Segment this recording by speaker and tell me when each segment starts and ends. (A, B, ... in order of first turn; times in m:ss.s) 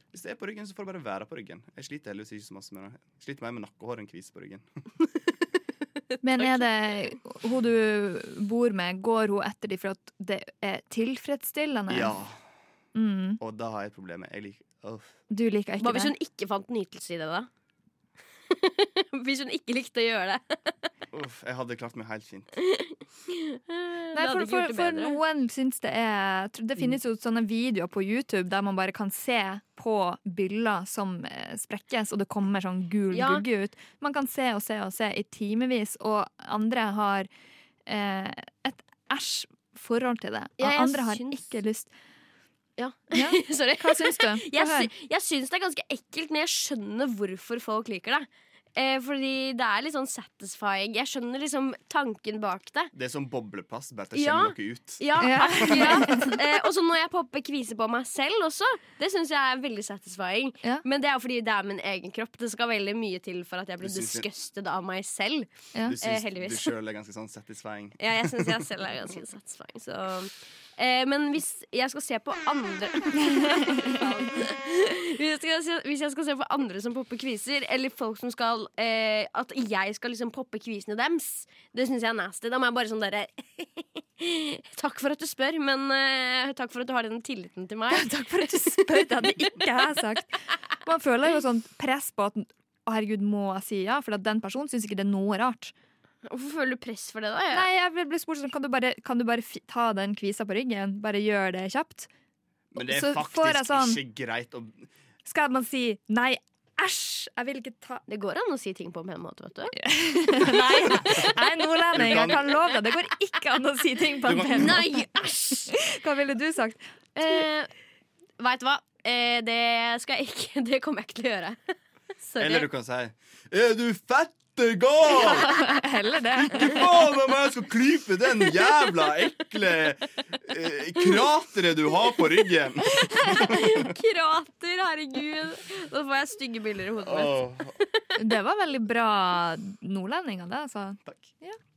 0:00.1-0:04.7 A
0:06.2-0:12.2 B
0:06.4-0:06.6 C
0:11.9-0:12.4 A
0:13.0-0:13.4 B
0:13.4-0:15.2 A
0:15.3-0:16.1 B
0:15.8-0:17.5 C
0:18.5-0:20.7 C
0:21.1-0:22.6 A
0:22.6-0:25.2 C
0:24.1-0:37.3 B
0:33.1-0:33.4 C
0:37.9-0:41.9 B
0:40.6-0:41.5 C
0:42.8-0:52.9 C
0:43.1-0:44.9 B
0:52.9-0:56.2 A
0:54.1-1:06.7 C
0:55.2-0:56.3 B
1:03.8-1:04.3 A
1:05.8-1:08.7 A
1:08.0-1:28.1 C
1:27.9-1:35.7 B
1:28.8-1:29.5 C
1:36.2-1:37.7 C
1:37.5-1:42.1 B
1:42.7-1:44.9 A
1:42.8-1:44.0 B
1:45.3-1:48.0 B
1:48.1-1:49.9 C
1:49.8-1:55.1 B
1:51.9-1:52.6 A
1:54.2-1:54.9 A
1:54.6-1:55.7 C
1:55.7-1:56.8 B
1:57.2-1:57.7 C
1:58.4-2:01.6 C
2:02.2-2:02.7 C
2:02.4-2:05.5 A
2:05.2-2:06.7 B
2:06.4-2:13.9 A
2:13.4-2:18.0 C
2:17.0-2:17.8 A
2:18.2-2:21.6 B
2:21.1-2:21.3 A